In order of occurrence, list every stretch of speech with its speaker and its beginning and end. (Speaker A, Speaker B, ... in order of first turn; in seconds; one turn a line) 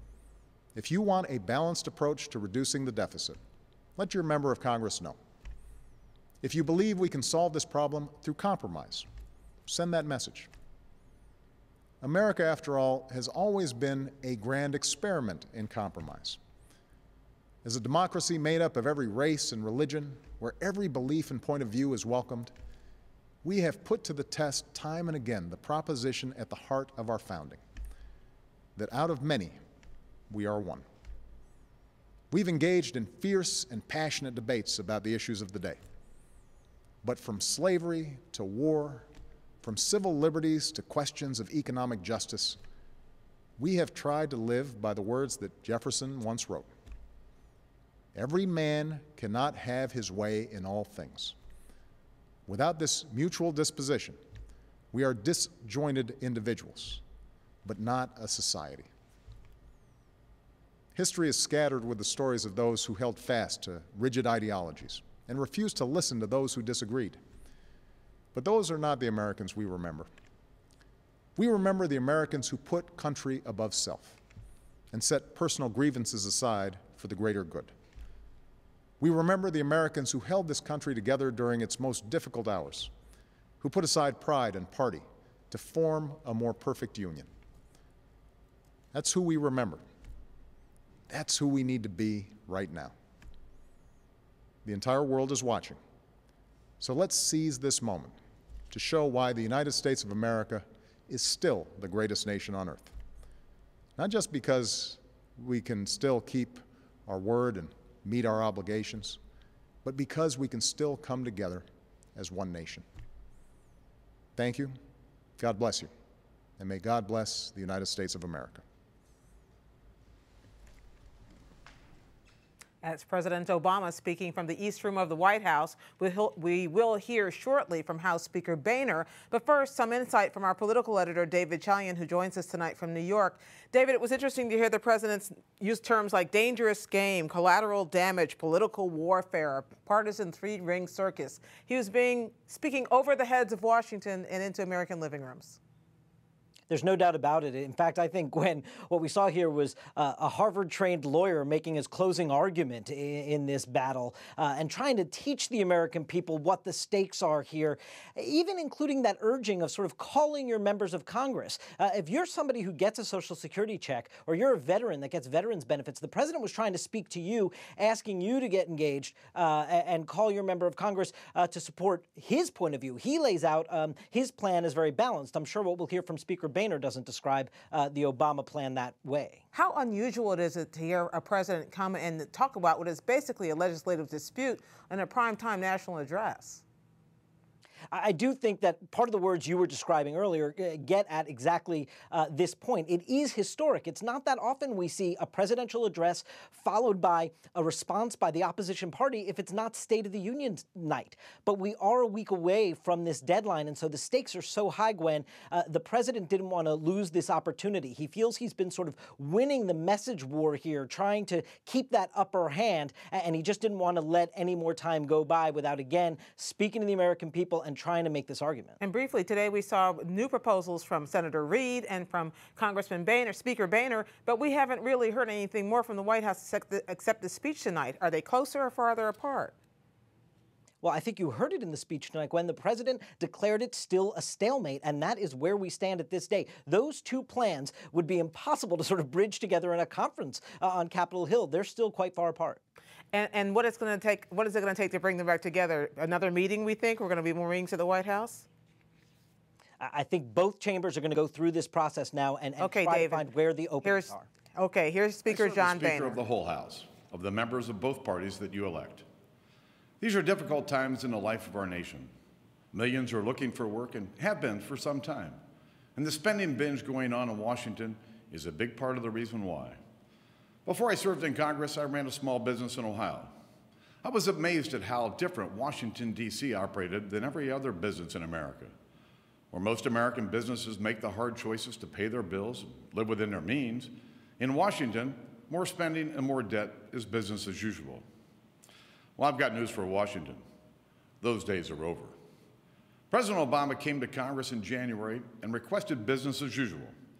Speaker A: 0.7-3.4
Speaker A: 4.0-5.2
Speaker A: 6.4-9.1
Speaker A: 9.7-10.5
Speaker A: 12.0-16.4
Speaker A: 17.6-22.5
Speaker A: 23.4-27.6
Speaker A: 28.8-29.6
Speaker A: 30.3-30.8
Speaker A: 32.3-35.8
Speaker A: 37.0-39.1
Speaker A: 39.6-42.6
Speaker A: 43.6-46.7
Speaker A: 48.1-51.4
Speaker A: 52.5-54.2
Speaker A: 54.9-57.0
Speaker A: 57.6-58.9
Speaker A: 60.9-67.2
Speaker A: 68.3-70.1
Speaker A: 71.3-74.2
Speaker A: 74.9-77.7
Speaker A: 79.0-82.9
Speaker A: 83.6-87.3
Speaker A: 88.9-89.8
Speaker A: 91.1-92.9
Speaker A: 94.6-95.8
Speaker A: 96.8-98.1
Speaker A: 98.7-102.9
Speaker A: 104.0-109.2
Speaker A: 109.8-111.6
Speaker A: 112.1-112.8
Speaker A: 114.3-114.7
Speaker A: 115.4-115.9
Speaker A: 116.6-118.6
Speaker B: 122.8-145.6
Speaker C: 146.7-179.4
Speaker B: 179.5-186.6
Speaker C: 187.9-218.8
Speaker B: 218.8-229.5
Speaker C: 230.8-242.6
Speaker B: 243.1-248.4
Speaker C: 249.8-254.2
Speaker B: 252.6-253.2
Speaker B: 253.8-256.2
Speaker D: 255.3-259.0
Speaker D: 260.0-262.1
Speaker D: 262.7-265.4
Speaker D: 265.9-269.8
Speaker D: 270.6-273.3
Speaker D: 274.0-278.7
Speaker D: 279.5-288.0
Speaker D: 289.2-290.4
Speaker D: 291.2-292.1
Speaker D: 293.1-296.9